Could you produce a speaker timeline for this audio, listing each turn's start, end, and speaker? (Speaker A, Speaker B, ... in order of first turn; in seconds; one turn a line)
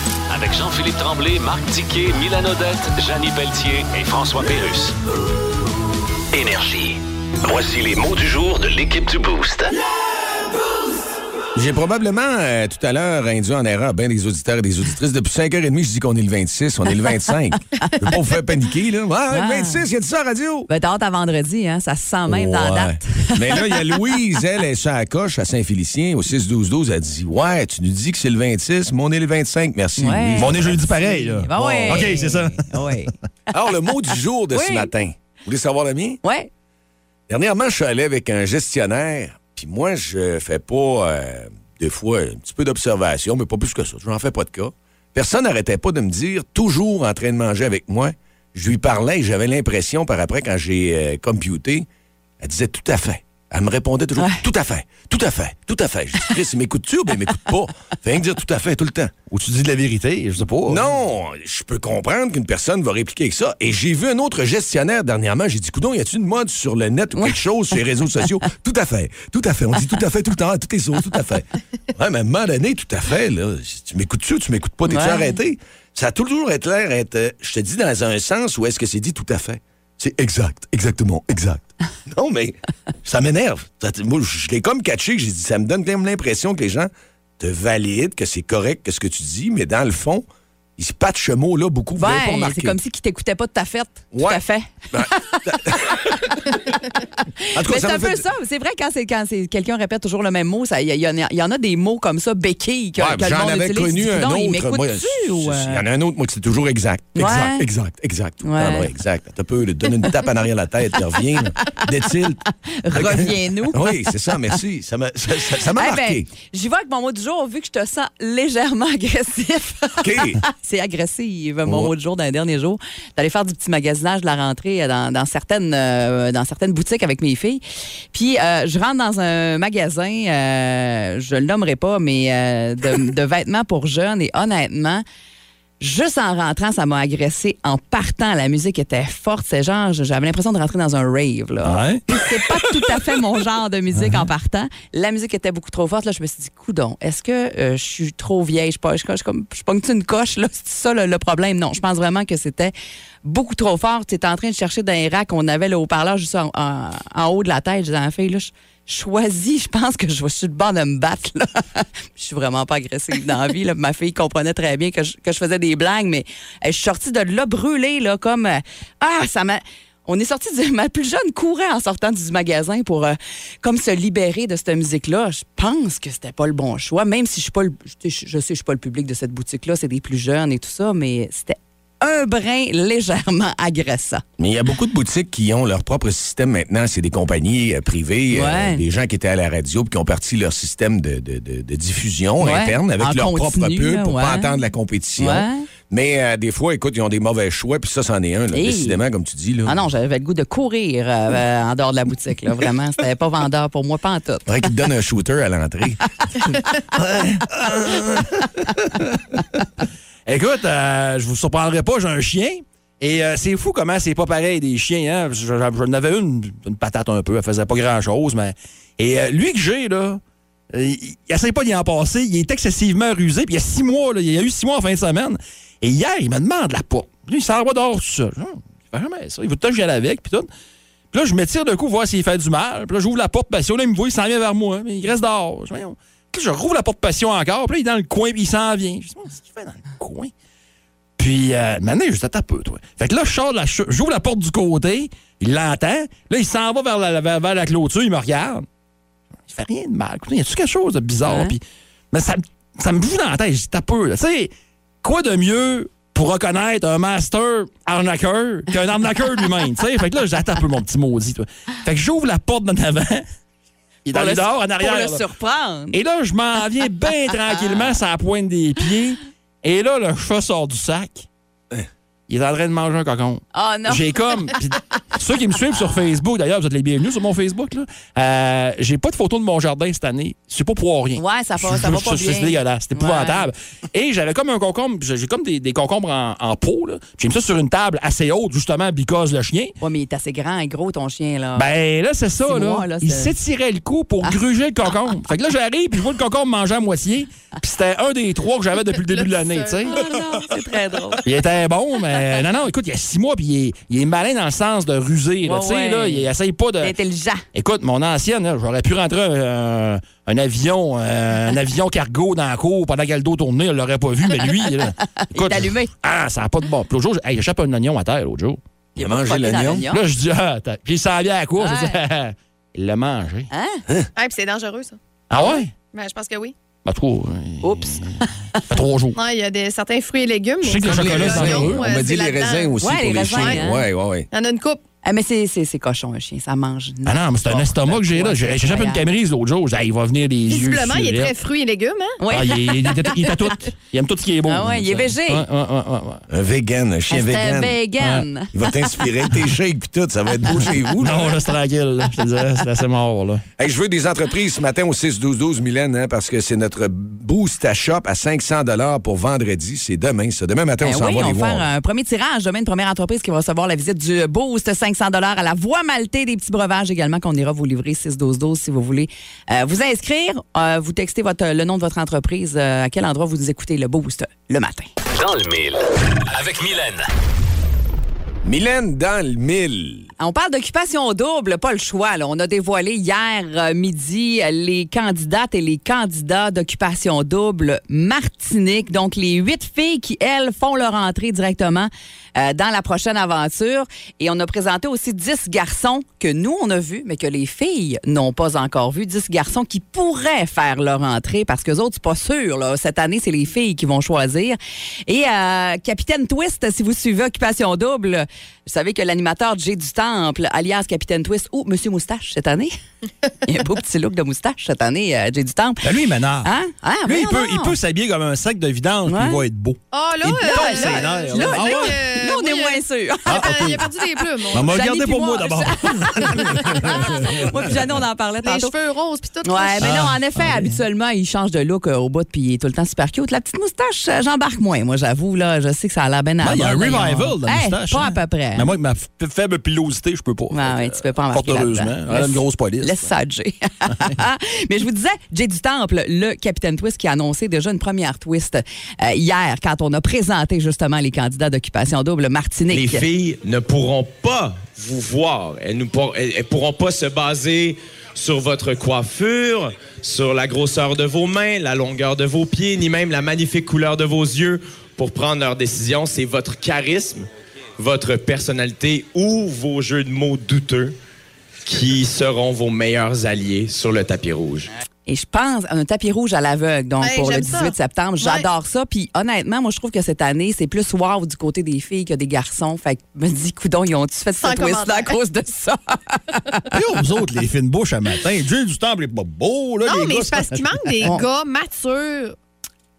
Speaker A: 0.3-5.0
Speaker A: 6.3-9.7
Speaker B: 11.5-20.7
Speaker C: 19.3-19.8
Speaker C: 20.7-23.8
Speaker B: 22.3-30.8
Speaker C: 30.0-33.1
Speaker D: 30.4-32.6
Speaker B: 33.5-36.2
Speaker C: 34.5-34.9
Speaker C: 36.2-36.5
Speaker B: 37.3-51.9
Speaker B: 52.4-59.1
Speaker D: 59.3-60.9
Speaker B: 60.7-90.2
Speaker C: 74.9-75.4
Speaker B: 90.8-92.8
Speaker C: 92.0-96.0
Speaker B: 94.1-94.4
Speaker B: 94.9-96.4
Speaker C: 97.5-105.8
Speaker B: 97.5-98.2
Speaker B: 103.0-112.4
Speaker C: 107.2-107.7
Speaker C: 108.4-108.9
Speaker C: 112.7-114.0
Speaker B: 112.9-116.3
Speaker C: 115.8-127.6
Speaker B: 120.0-120.4
Speaker C: 128.1-135.0
Speaker C: 135.8-152.7
Speaker D: 141.6-142.0
Speaker D: 143.9-144.3
Speaker C: 153.2-184.2
Speaker B: 184.4-199.8
Speaker C: 188.3-188.8
Speaker C: 192.4-194.6
Speaker C: 195.2-195.7
Speaker C: 198.5-199.0
Speaker C: 199.7-204.5
Speaker B: 204.5-206.1
Speaker D: 207.0-208.2
Speaker B: 207.6-208.2
Speaker D: 210.3-220.2
Speaker D: 220.7-230.5
Speaker D: 231.1-240.3
Speaker D: 241.2-248.7
Speaker D: 249.5-254.5
Speaker C: 251.2-251.6
Speaker D: 255.0-263.3
Speaker D: 264.1-265.2
Speaker C: 264.1-266.0
Speaker D: 265.9-271.3
Speaker D: 272.3-289.8
Speaker C: 273.5-274.4
Speaker C: 281.2-283.5
Speaker C: 289.8-291.7
Speaker D: 291.6-300.0
Speaker C: 292.4-293.3
Speaker C: 299.4-301.2
Speaker D: 301.2-306.9
Speaker C: 305.4-306.3
Speaker C: 306.8-307.4
Speaker D: 307.5-318.6
Speaker C: 315.2-315.9
Speaker B: 319.0-319.8
Speaker C: 319.0-320.0
Speaker D: 319.9-323.5
Speaker C: 321.6-322.0
Speaker C: 323.5-323.8
Speaker E: 324.2-325.0
Speaker D: 325.3-325.7
Speaker E: 325.9-326.5
Speaker D: 326.9-328.1
Speaker C: 327.6-328.6
Speaker D: 328.7-329.2
Speaker E: 329.1-332.8
Speaker D: 330.6-331.9
Speaker B: 330.8-334.3
Speaker C: 331.3-331.7
Speaker C: 332.8-333.8
Speaker E: 333.3-333.6
Speaker E: 334.3-334.8
Speaker C: 335.1-339.1
Speaker D: 337.1-341.4
Speaker E: 340.5-342.2
Speaker C: 342.2-343.3
Speaker D: 342.3-346.2
Speaker C: 344.5-345.4
Speaker B: 346.3-347.8
Speaker C: 347.1-348.5
Speaker B: 348.5-351.2
Speaker D: 351.0-353.4
Speaker B: 353.6-361.7
Speaker C: 360.8-374.9
Speaker A: 375.2-377.1
Speaker B: 378.4-380.1
Speaker C: 380.2-412.7
Speaker C: 413.4-415.9
Speaker D: 415.8-416.5
Speaker C: 416.4-417.8
Speaker D: 417.1-422.0
Speaker C: 419.1-419.4
Speaker E: 419.9-424.9
Speaker C: 420.4-423.9
Speaker D: 423.3-423.9
Speaker C: 424.5-428.7
Speaker D: 424.5-427.5
Speaker E: 426.4-427.5
Speaker E: 428.4-430.0
Speaker C: 429.4-438.7
Speaker D: 429.8-430.8
Speaker D: 436.4-443.1
Speaker C: 440.5-453.1
Speaker F: 452.7-467.3
Speaker F: 467.8-470.9
Speaker F: 471.6-474.7
Speaker C: 475.1-486.8
Speaker E: 477.0-478.5
Speaker E: 484.4-485.2
Speaker D: 486.7-491.1
Speaker E: 489.8-492.4